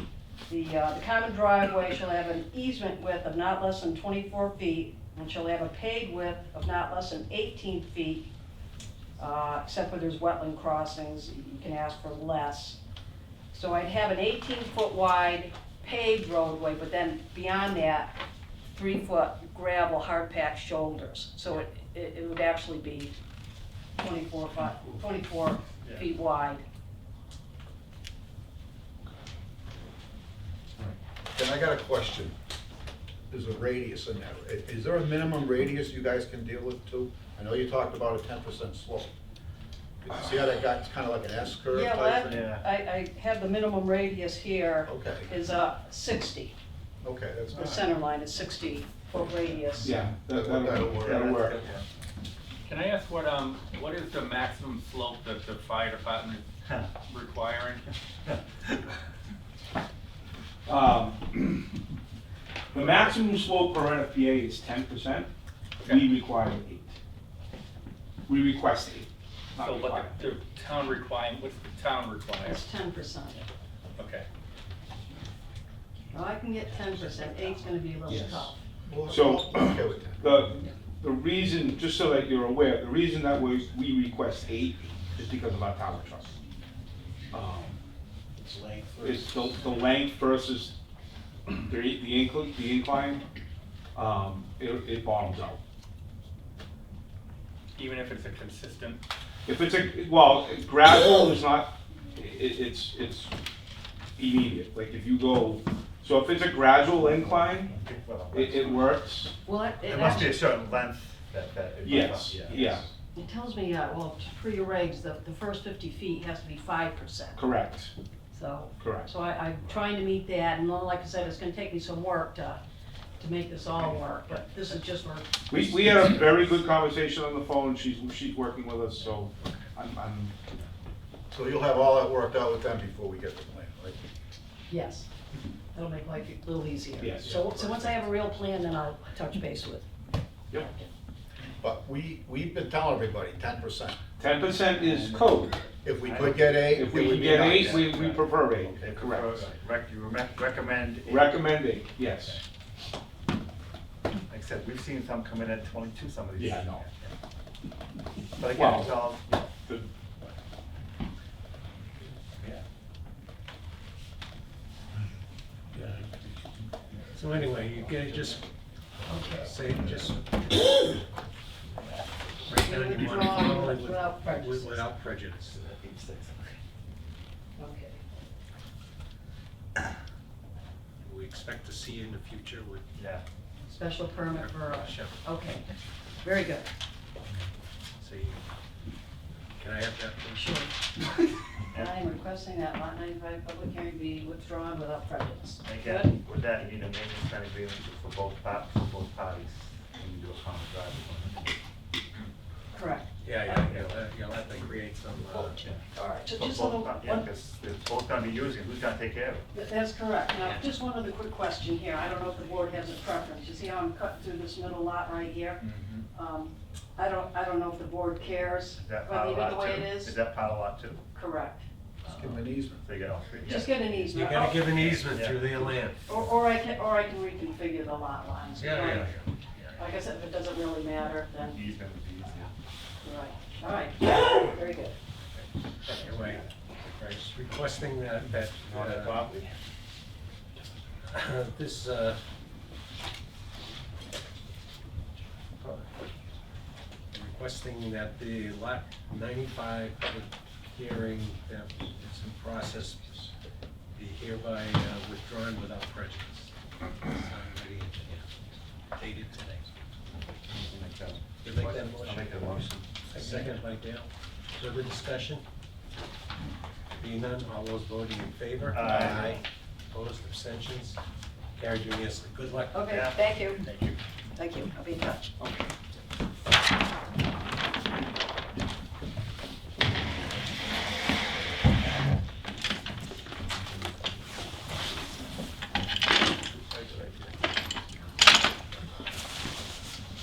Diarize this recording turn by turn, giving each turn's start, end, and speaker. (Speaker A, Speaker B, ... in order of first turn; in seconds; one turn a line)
Speaker A: 0.5-8.3
Speaker A: 9.2-12.8
Speaker A: 13.5-18.2
Speaker A: 18.7-23.1
Speaker A: 24.0-26.6
Speaker B: 31.3-32.4
Speaker B: 33.3-39.1
Speaker B: 40.0-42.4
Speaker A: 41.7-46.5
Speaker C: 42.2-42.6
Speaker B: 44.9-45.3
Speaker B: 47.0-47.8
Speaker A: 47.5-49.9
Speaker D: 49.8-51.6
Speaker B: 49.8-51.3
Speaker C: 51.0-51.9
Speaker E: 52.6-56.5
Speaker E: 57.0-57.9
Speaker D: 60.6-61.7
Speaker D: 62.7-65.3
Speaker D: 65.8-67.0
Speaker D: 68.3-70.2
Speaker E: 69.6-72.6
Speaker A: 72.4-73.5
Speaker E: 74.0-74.2
Speaker A: 76.1-78.6
Speaker D: 78.1-78.5
Speaker B: 78.8-80.4
Speaker D: 79.1-86.4
Speaker D: 87.3-87.8
Speaker D: 89.0-90.8
Speaker D: 91.5-93.2
Speaker D: 93.9-95.6
Speaker E: 97.8-99.0
Speaker D: 99.5-103.3
Speaker D: 104.2-107.8
Speaker C: 107.2-109.0
Speaker D: 108.3-109.3
Speaker A: 109.4-110.4
Speaker C: 109.8-112.9
Speaker D: 111.8-112.8
Speaker A: 113.1-117.4
Speaker D: 117.3-117.9
Speaker A: 118.3-122.6
Speaker D: 118.8-119.1
Speaker A: 123.2-125.8
Speaker D: 125.5-130.4
Speaker B: 131.3-134.0
Speaker A: 134.7-135.1
Speaker A: 135.7-139.9
Speaker D: 137.0-137.3
Speaker A: 140.5-140.9
Speaker B: 141.6-144.0
Speaker D: 144.2-145.6
Speaker B: 145.8-148.1
Speaker C: 146.0-151.4
Speaker D: 146.2-149.5
Speaker D: 151.1-152.4
Speaker C: 154.3-157.1
Speaker D: 156.3-156.8
Speaker C: 158.3-159.6
Speaker D: 158.5-159.9
Speaker F: 165.7-166.1
Speaker F: 167.1-168.4
Speaker A: 169.1-169.5
Speaker F: 169.2-170.8
Speaker F: 172.5-175.6
Speaker A: 172.6-174.8
Speaker C: 175.5-176.6
Speaker A: 177.6-178.0
Speaker F: 181.0-182.8
Speaker C: 182.9-183.2
Speaker A: 183.7-185.7
Speaker F: 184.4-185.1
Speaker A: 186.2-186.7
Speaker F: 188.0-188.4
Speaker F: 189.6-190.5
Speaker A: 190.3-190.7
Speaker A: 191.7-196.1
Speaker C: 195.6-201.5
Speaker A: 202.7-203.9
Speaker F: 203.2-205.6
Speaker A: 205.3-207.3
Speaker C: 205.6-209.4
Speaker A: 209.5-220.2
Speaker C: 215.6-216.1
Speaker C: 218.8-221.0
Speaker A: 221.1-221.7
Speaker B: 222.0-222.8
Speaker C: 222.0-225.5
Speaker A: 223.4-224.7
Speaker F: 224.1-226.0
Speaker A: 225.6-229.1
Speaker F: 228.6-229.3
Speaker C: 228.8-229.1
Speaker A: 229.8-231.6
Speaker C: 231.4-232.5
Speaker A: 233.0-235.0
Speaker C: 235.8-236.2
Speaker F: 236.0-239.3
Speaker C: 238.7-239.5
Speaker F: 241.1-242.2
Speaker F: 247.1-253.3
Speaker F: 253.9-256.5
Speaker F: 257.0-258.3
Speaker F: 258.9-259.7
Speaker C: 260.5-263.5
Speaker F: 261.4-265.4
Speaker F: 267.0-271.0
Speaker C: 268.7-269.4
Speaker F: 271.6-272.9
Speaker A: 272.7-273.6
Speaker C: 272.9-273.2
Speaker E: 273.6-274.0
Speaker A: 274.4-275.2
Speaker E: 275.4-275.7
Speaker C: 286.4-287.5